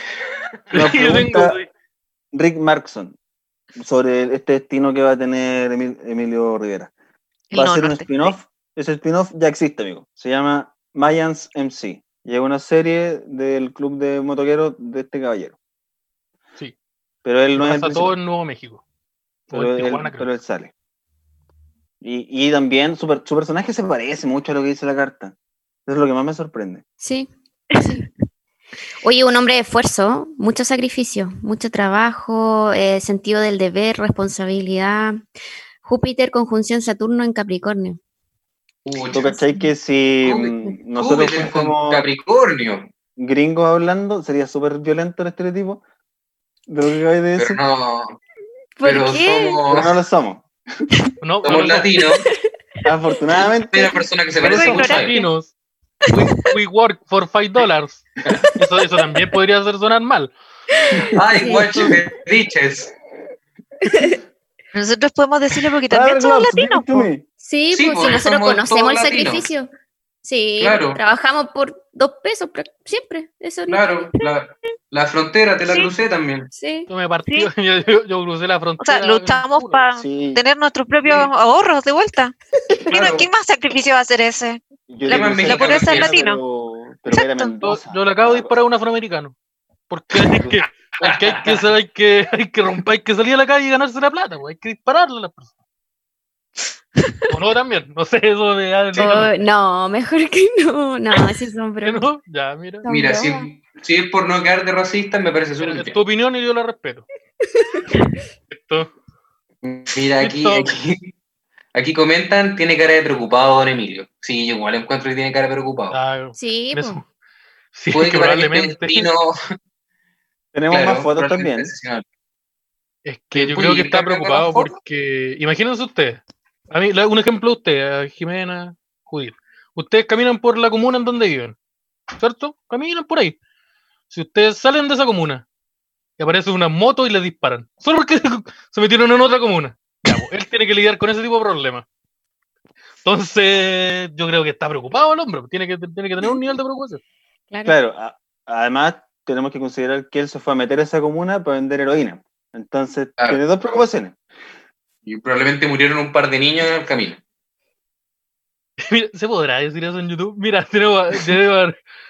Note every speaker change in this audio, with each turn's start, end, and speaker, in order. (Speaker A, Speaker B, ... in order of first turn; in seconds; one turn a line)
Speaker A: 0.7-1.7
Speaker B: 0.7-1.6
Speaker B: 2.3-3.2
Speaker B: 3.8-6.9
Speaker C: 7.5-8.4
Speaker B: 7.5-15.6
Speaker B: 17.2-18.2
Speaker A: 17.6-18.8
Speaker A: 19.5-20.3
Speaker B: 19.5-20.7
Speaker B: 22.0-25.4
Speaker B: 25.9-26.8
Speaker D: 27.0-28.1
Speaker C: 27.7-28.0
Speaker D: 29.0-35.2
Speaker D: 35.8-38.0
Speaker E: 38.9-39.3
Speaker B: 39.1-42.1
Speaker E: 40.2-42.9
Speaker B: 43.2-45.8
Speaker B: 46.7-47.6
Speaker E: 47.4-48.2
Speaker D: 48.8-49.6
Speaker E: 48.8-49.9
Speaker B: 49.7-50.5
Speaker A: 51.2-51.9
Speaker E: 51.4-52.2
Speaker B: 52.9-53.7
Speaker E: 53.7-55.2
Speaker A: 54.4-55.5
Speaker C: 54.5-55.3
Speaker A: 56.1-60.3
Speaker D: 60.8-62.0
Speaker E: 61.1-62.9
Speaker D: 63.9-64.2
Speaker C: 64.7-67.1
Speaker B: 65.9-67.2
Speaker D: 67.4-69.7
Speaker E: 67.7-69.5
Speaker D: 70.2-73.8
Speaker E: 70.6-71.0
Speaker E: 73.7-76.5
Speaker D: 76.5-76.9
Speaker A: 76.9-79.8
Speaker C: 78.8-82.3
Speaker B: 80.0-80.4
Speaker E: 82.9-83.3
Speaker C: 82.9-86.4
Speaker B: 84.9-88.5
Speaker E: 85.1-86.3
Speaker C: 87.1-87.5
Speaker A: 87.6-89.3
Speaker A: 89.9-95.5
Speaker E: 91.0-91.7
Speaker A: 97.3-99.3
Speaker D: 99.0-102.1
Speaker A: 101.8-102.9
Speaker D: 102.8-103.5
Speaker E: 102.9-106.0
Speaker A: 105.6-107.1
Speaker D: 107.5-107.8
Speaker A: 108.5-108.9
Speaker E: 109.6-111.1
Speaker A: 110.2-110.7
Speaker E: 111.7-116.0
Speaker A: 115.9-117.0
Speaker D: 116.3-117.0
Speaker A: 117.7-119.1
Speaker E: 117.9-119.3
Speaker B: 120.5-121.7
Speaker E: 120.7-122.0
Speaker A: 123.0-131.6
Speaker E: 123.3-124.8
Speaker A: 132.2-133.4
Speaker A: 134.1-135.4
Speaker A: 136.2-141.8
Speaker A: 143.0-147.0
Speaker D: 147.5-147.8
Speaker B: 147.7-154.2
Speaker E: 155.1-157.2
Speaker A: 158.8-161.8